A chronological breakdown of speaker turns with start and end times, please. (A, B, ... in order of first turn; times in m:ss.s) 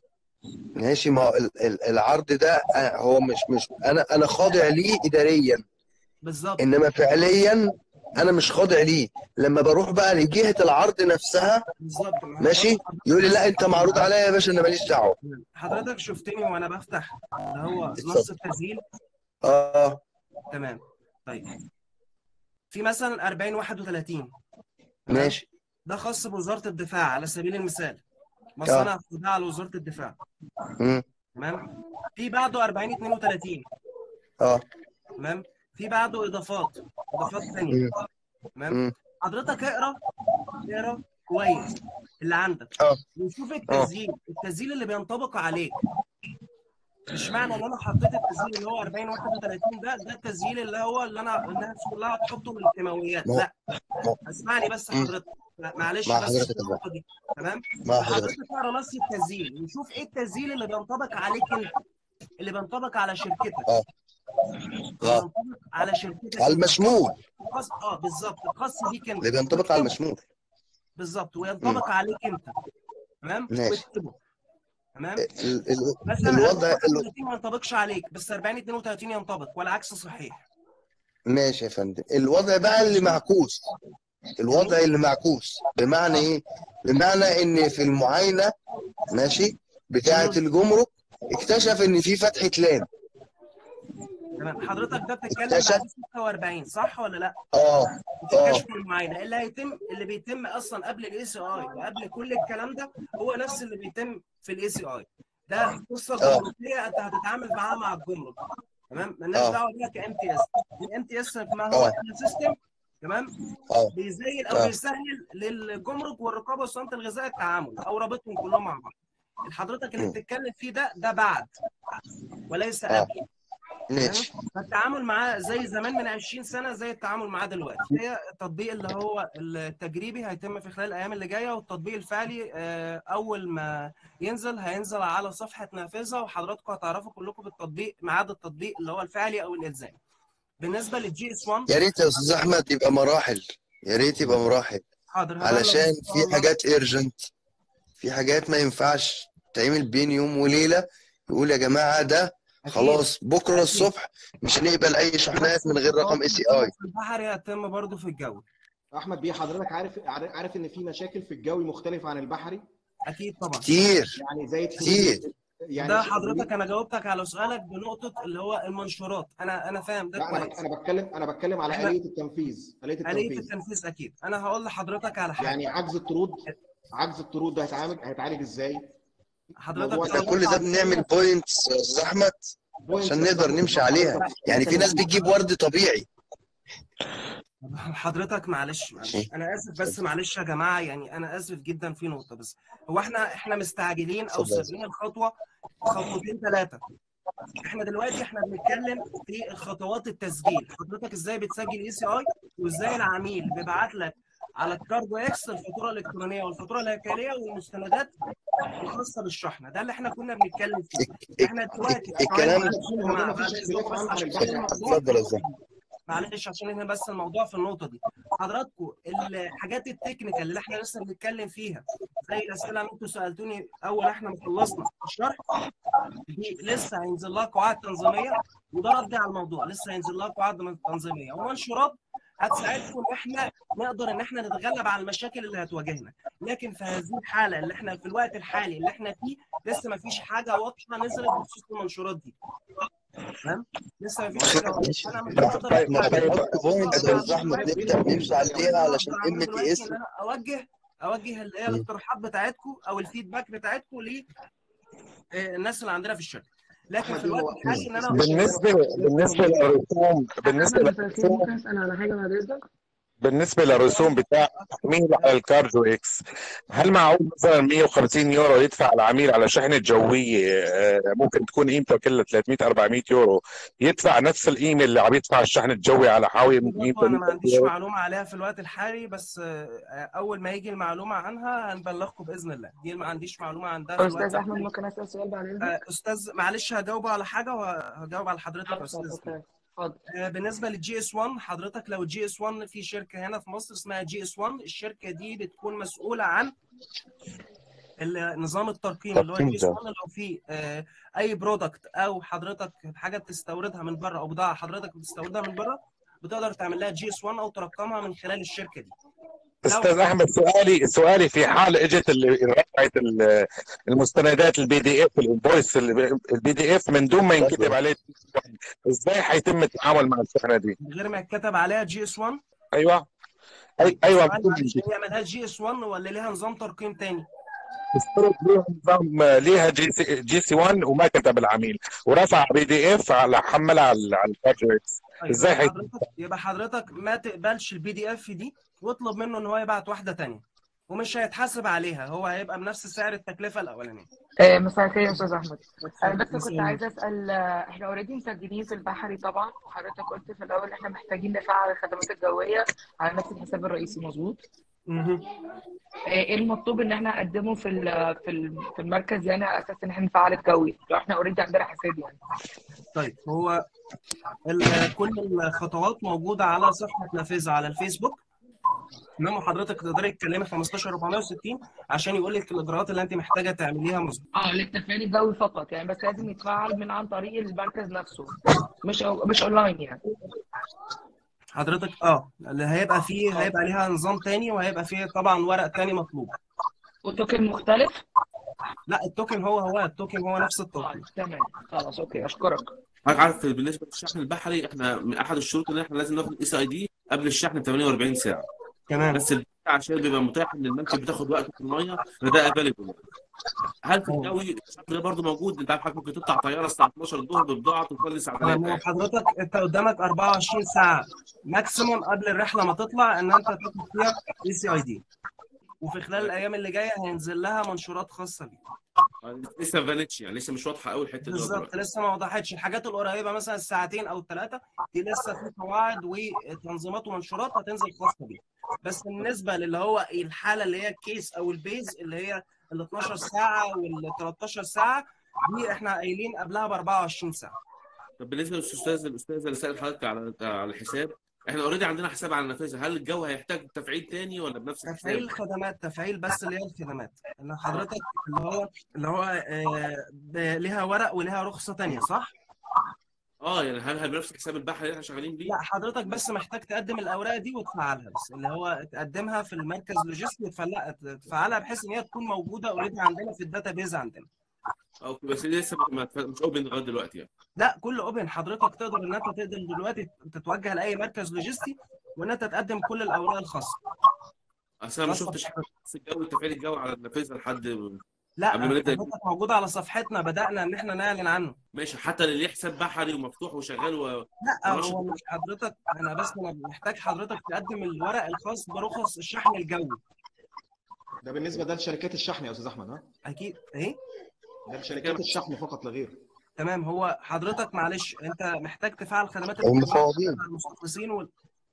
0:00.7-0:05.6 A
0:06.2-0:06.6 B
0:06.6-0:11.6 A
0:11.8-0:14.1 B
0:12.4-0:15.2 A
0:15.2-0:18.8 B
0:18.0-0:18.3 A
0:19.4-0:20.0 A
0:20.5-0:21.4 B
0:22.7-0:24.3 B
0:25.1-0:25.3 B
0:25.1-0:25.5 A
0:25.8-0:28.0 B
0:28.6-0:30.2 B
0:28.6-0:28.9 A
0:30.8-0:31.0 A
0:31.3-0:31.6 B
0:32.1-0:33.6 B
0:35.2-0:37.8 B
0:38.5-0:40.0 B
0:40.6-0:45.7 B
0:47.1-0:53.5 B
0:53.3-0:54.2 A
0:54.2-1:01.7 B
0:56.0-0:56.8 A
0:57.8-0:58.3 A
1:02.4-1:03.7 B
1:04.6-1:05.2 A
1:05.0-1:09.9 B
1:06.4-1:07.2 A
1:09.2-1:10.2 A
1:11.0-1:12.5 B
1:13.2-1:14.2 B
1:13.5-1:13.8 A
1:15.0-1:15.2 B
1:15.2-1:17.0 A
1:16.0-1:20.4 B
1:21.3-1:23.7 A
1:22.7-1:23.2 B
1:24.4-1:28.5 A
1:24.5-1:24.8 B
1:29.1-1:32.9 A
1:30.0-1:30.4 B
1:34.4-1:37.4 B
1:35.3-1:35.8 A
1:37.5-1:38.6 A
1:38.2-1:48.4 B
1:46.2-1:46.5 A
1:48.9-1:53.3 B
1:53.9-1:58.9 B
1:59.4-2:01.5 B
2:02.5-2:03.2 B
2:03.9-2:04.3 A
2:04.0-2:20.0 B
2:20.6-2:22.2 B
2:21.7-2:24.8 A
2:25.1-2:26.5 B
2:25.4-2:27.3 A
2:28.0-2:36.7 A
2:32.7-2:33.9 B
2:35.3-2:38.4 B
2:38.9-2:42.6 C
2:43.1-2:43.7 B
2:43.6-2:44.2 A
2:44.2-2:46.5 C
2:44.8-2:45.2 A
2:45.8-2:50.6 B
2:50.2-2:53.5 C
2:51.7-2:52.0 B
2:53.0-2:55.6 B
2:55.4-2:58.9 C
2:59.6-3:01.1 B
2:59.7-3:00.4 C
3:00.1-3:06.1 A
3:02.9-3:05.1 C
3:04.0-3:05.0 B
3:07.6-3:15.3 B
3:14.3-3:14.7 A
3:15.8-3:16.8 B
3:17.6-3:28.1 B
3:28.8-3:35.6 B
3:31.0-3:32.8 A
3:32.4-3:35.1 C
3:34.4-3:35.4 A
3:36.1-3:45.4 B
3:46.3-4:02.3 B
4:03.4-4:14.2 B
4:04.4-4:04.9 C
4:04.4-4:10.0 A
4:05.9-4:06.3 D
4:06.9-4:08.8 C
4:15.3-4:18.6 B
4:17.0-4:19.7 C
4:18.1-4:21.5 D
4:20.4-4:22.6 E
4:23.2-4:26.2 D
4:23.8-4:25.3 B
4:26.7-4:37.7 D
4:36.6-4:44.7 B
4:44.0-4:45.7 E
4:45.6-4:49.3 B
4:48.7-4:50.0 E
4:50.1-4:56.5 B
4:58.0-5:08.9 B
4:59.1-4:59.8 A
5:09.6-5:20.8 D
5:09.7-5:09.9 B
5:17.4-5:17.8 A
5:20.8-5:22.4 B
5:22.7-5:23.1 D
5:23.8-5:24.8 D
5:23.8-5:27.2 B
5:27.9-5:35.9 D
5:35.2-5:44.1 B
5:44.4-5:54.4 E
5:45.8-5:46.8 B
5:54.9-5:55.2 B
5:56.1-6:02.2 E
6:02.9-6:03.6 B
6:04.4-6:08.2 B
6:09.2-6:14.2 B
6:14.3-6:20.0 E
6:21.6-6:26.3 B
6:27.0-6:28.0 E
6:28.9-6:31.0 B
6:30.8-6:32.7 E
6:33.0-6:38.5 F
6:38.9-6:39.2 B
6:39.1-6:43.0 F
6:43.8-6:48.8 F
6:44.0-6:44.3 B
6:48.4-6:55.0 B
6:55.8-6:58.6 B
6:59.2-7:01.7 F
7:01.2-7:17.6 B
7:18.2-7:25.3 F
7:24.8-7:32.3 B
7:33.4-7:35.6 F
7:35.5-7:44.3 B
7:45.0-7:47.3 F
7:47.6-7:53.8 B
7:54.8-7:58.0 F
7:55.0-7:55.6 B
7:58.4-8:01.6 B
7:58.5-7:59.1 F
8:01.7-8:05.2 F
8:04.4-8:10.0 B
8:11.2-8:13.1 C
8:13.2-8:14.0 B
8:14.7-8:16.2 C
8:14.9-8:15.4 F
8:16.6-8:21.3 B
8:19.6-8:20.4 A